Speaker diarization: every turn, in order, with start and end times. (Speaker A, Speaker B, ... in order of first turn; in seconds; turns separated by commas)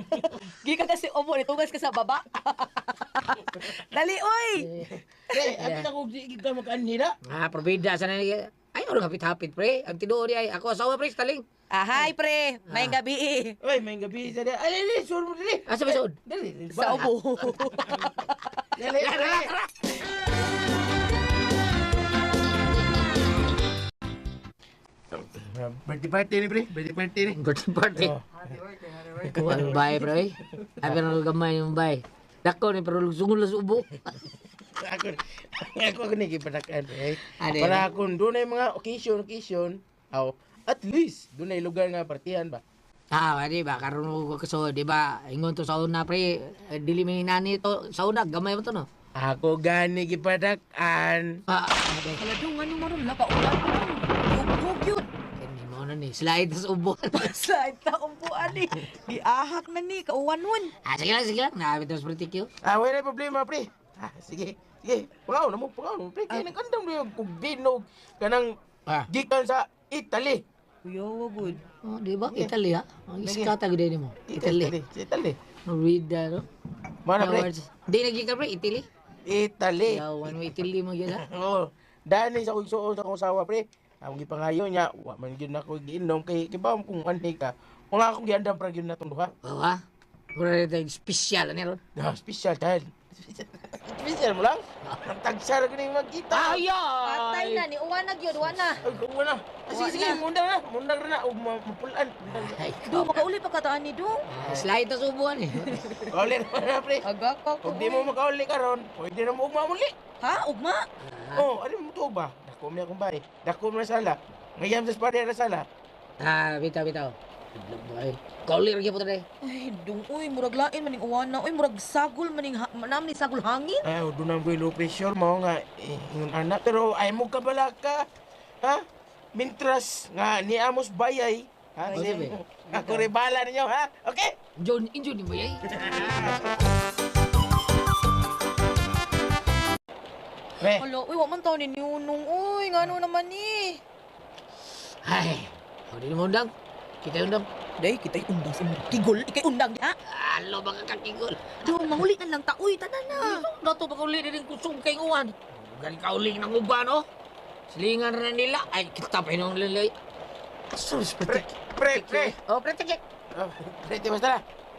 Speaker A: 0.1-4.7, Speaker B: 5.3-7.1, Speaker C: 5.6-5.9, Speaker C: 7.2-11.4, Speaker A: 11.7-13.6, Speaker C: 12.7-12.9, Speaker B: 13.6-17.1, Speaker C: 15.7-16.1, Speaker A: 16.7-18.5, Speaker B: 18.8-19.5, Speaker C: 19.0-19.7, Speaker B: 25.1-27.4, Speaker C: 27.3-28.1, Speaker B: 27.9-28.5, Speaker B: 29.2-29.7, Speaker C: 29.3-34.2, Speaker B: 30.6-30.9, Speaker B: 34.8-42.6, Speaker C: 37.2-37.9, Speaker C: 43.1-48.9, Speaker B: 49.2-51.4, Speaker C: 51.5-52.2, Speaker A: 52.2-55.0, Speaker C: 55.4-57.3, Speaker A: 57.1-60.7, Speaker C: 60.8-62.5, Speaker B: 62.6-68.5, Speaker B: 69.1-70.4, Speaker A: 70.8-71.6, Speaker C: 71.8-74.7, Speaker B: 73.2-73.5, Speaker B: 74.3-75.4, Speaker C: 75.7-76.4, Speaker B: 77.0-77.5, Speaker C: 77.2-78.8, Speaker B: 79.3-80.0, Speaker C: 79.9-81.2, Speaker B: 81.2-89.3, Speaker C: 89.4-89.8, Speaker C: 90.3-91.8, Speaker B: 92.0-96.6, Speaker C: 96.3-97.6, Speaker A: 97.0-98.8, Speaker B: 98.8-102.6, Speaker A: 99.7-100.2, Speaker C: 102.3-103.3, Speaker A: 102.8-104.2, Speaker C: 104.3-105.8, Speaker A: 105.6-106.1, Speaker B: 106.1-107.0, Speaker A: 107.0-108.1, Speaker B: 107.6-109.9, Speaker A: 110.2-110.8, Speaker C: 111.0-111.5, Speaker B: 111.3-115.7, Speaker C: 116.2-119.2, Speaker A: 119.4-123.8, Speaker B: 123.8-128.0, Speaker B: 129.3-134.3, Speaker C: 131.9-132.3, Speaker C: 134.6-136.4, Speaker B: 135.7-136.5, Speaker A: 140.7-143.8, Speaker C: 145.0-146.5, Speaker C: 147.0-147.4, Speaker A: 147.8-149.9, Speaker C: 150.1-151.7, Speaker A: 151.6-153.5, Speaker C: 153.1-157.0, Speaker C: 157.7-159.9, Speaker C: 160.7-163.0, Speaker B: 161.2-162.3, Speaker B: 163.3-164.4